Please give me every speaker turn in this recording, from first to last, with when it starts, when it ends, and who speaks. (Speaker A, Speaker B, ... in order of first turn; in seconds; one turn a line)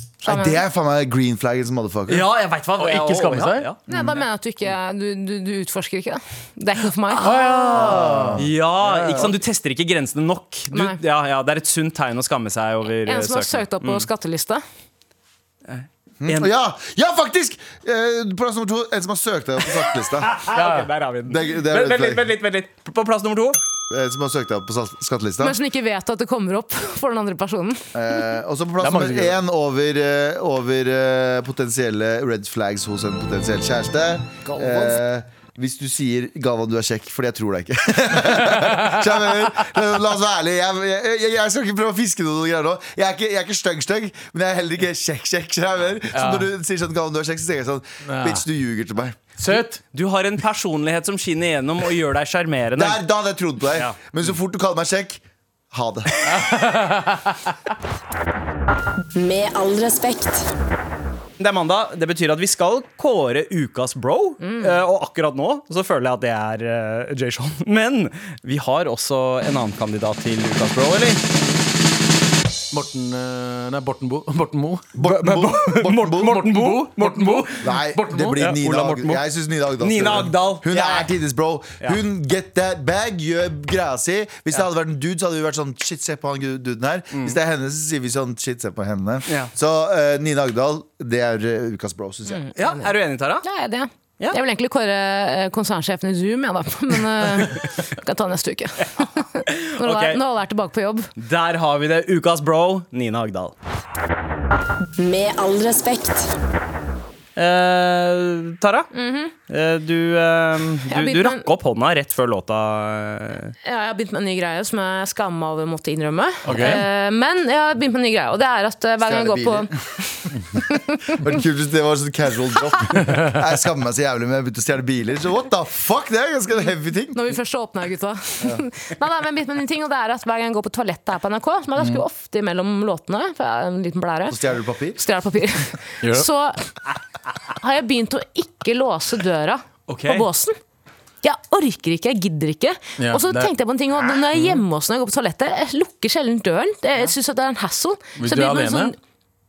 Speaker A: 0.2-0.6
Speaker B: 0.2-2.3
Speaker C: 2.1-3.8
Speaker D: 2.8-3.7
Speaker A: 3.9-7.3
Speaker D: 7.2-8.4
Speaker C: 7.5-14.1
Speaker B: 7.7-9.3
Speaker A: 10.7-11.0
Speaker A: 13.1-14.6
Speaker C: 15.7-16.5
Speaker B: 16.2-20.5
Speaker C: 20.2-23.6
Speaker D: 20.5-20.9
Speaker B: 21.3-22.3
Speaker B: 23.9-25.6
Speaker A: 25.4-27.9
Speaker B: 27.9-49.2
Speaker D: 28.8-29.4
Speaker D: 34.5-35.0
Speaker D: 38.4-39.2
Speaker D: 46.1-46.5
Speaker D: 48.1-48.4
Speaker D: 49.4-49.8
Speaker C: 49.9-53.0
Speaker B: 52.8-56.5
Speaker D: 56.2-57.4
Speaker E: 59.2-60.5
Speaker C: 61.4-71.5
Speaker A: 64.4-64.8
Speaker D: 72.7-74.9
Speaker B: 75.0-76.5
Speaker C: 75.0-77.7
Speaker D: 76.2-79.2
Speaker B: 77.6-92.5
Speaker C: 78.4-78.9
Speaker C: 79.8-81.2
Speaker C: 87.1-87.4
Speaker A: 92.3-101.1
Speaker C: 92.6-93.5
Speaker C: 99.0-100.2
Speaker C: 101.2-103.5
Speaker E: 105.0-106.3
Speaker C: 107.4-108.9
Speaker A: 108.9-109.3
Speaker C: 109.5-113.5
Speaker A: 110.9-111.5
Speaker A: 113.6-121.2
Speaker D: 116.5-116.8
Speaker B: 119.0-119.7
Speaker B: 121.1-127.3
Speaker A: 127.1-134.4
Speaker D: 131.8-132.0
Speaker B: 134.3-135.0
Speaker A: 134.9-136.7
Speaker D: 136.0-136.3
Speaker A: 137.5-140.6
Speaker C: 139.9-140.3
Speaker A: 141.2-148.9
Speaker D: 143.0-143.5
Speaker D: 148.2-148.9